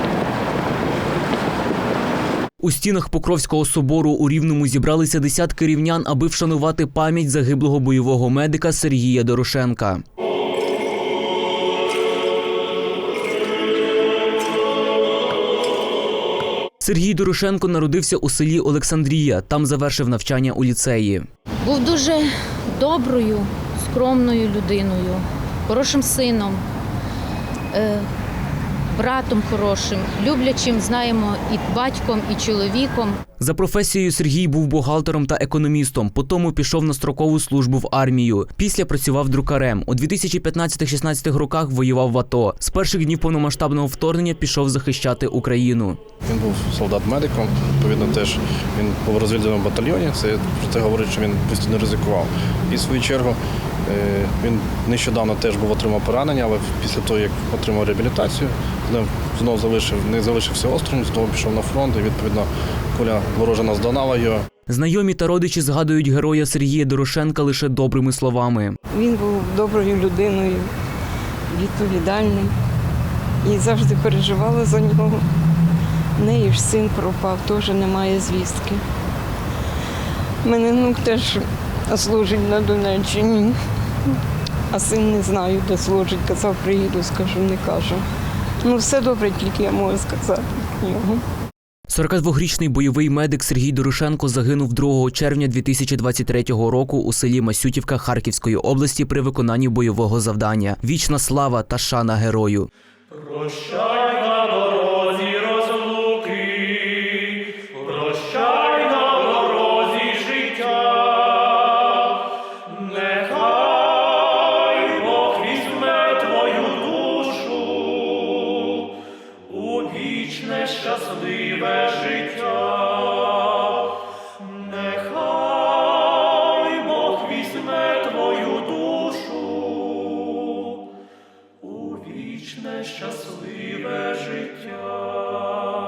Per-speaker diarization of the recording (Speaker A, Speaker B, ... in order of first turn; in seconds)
Speaker A: 2.6-10.0, 16.8-21.2, 33.4-46.0, 64.7-68.8, 91.9-102.7, 112.9-113.5, 115.0-117.7, 119.8-122.8, 124.8-125.5
Speaker B: 21.6-26.6, 27.7-28.1, 28.9-33.2
Speaker C: 46.2-64.4
Speaker D: 68.9-70.7, 71.5-72.5, 73.4-75.2, 76.2-78.8, 80.4-83.5, 84.7-88.0, 88.6-91.2
Speaker E: 127.7-128.3, 132.0-135.0